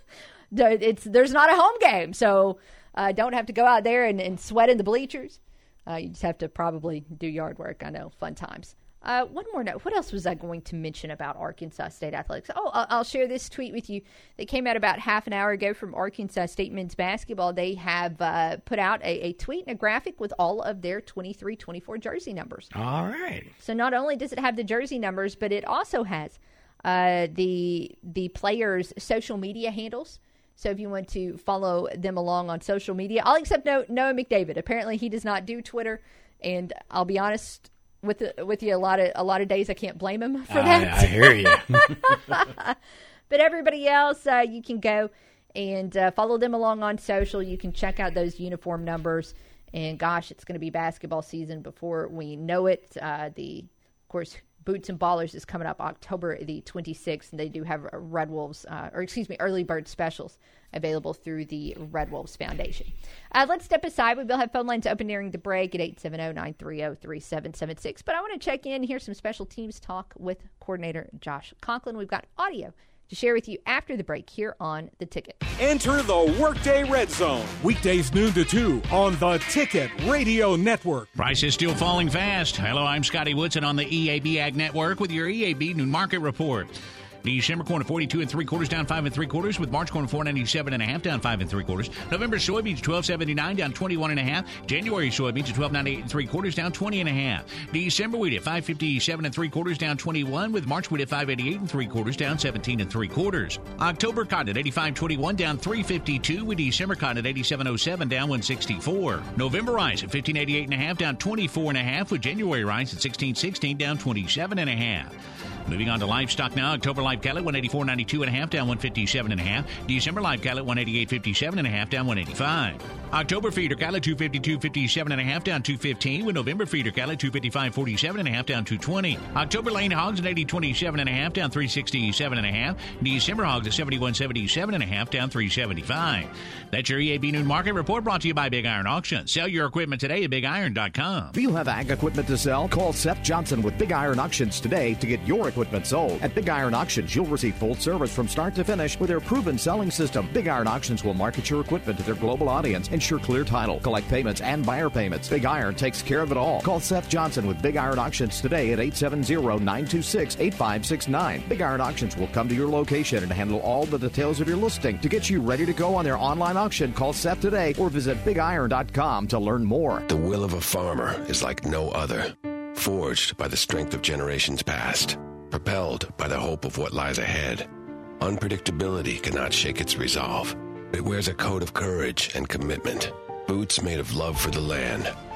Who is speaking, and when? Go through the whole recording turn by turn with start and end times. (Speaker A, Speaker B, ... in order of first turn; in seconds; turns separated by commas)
Speaker A: 0.5-22.7, Speaker B: 22.7-23.5, Speaker A: 23.6-42.8, Speaker B: 40.5-42.1, Speaker A: 43.3-75.4, Speaker C: 75.6-81.1, Speaker D: 81.2-115.1, Speaker D: 115.7-141.4, Speaker E: 141.3-170.0, Speaker F: 170.1-177.7, Speaker F: 178.2-185.1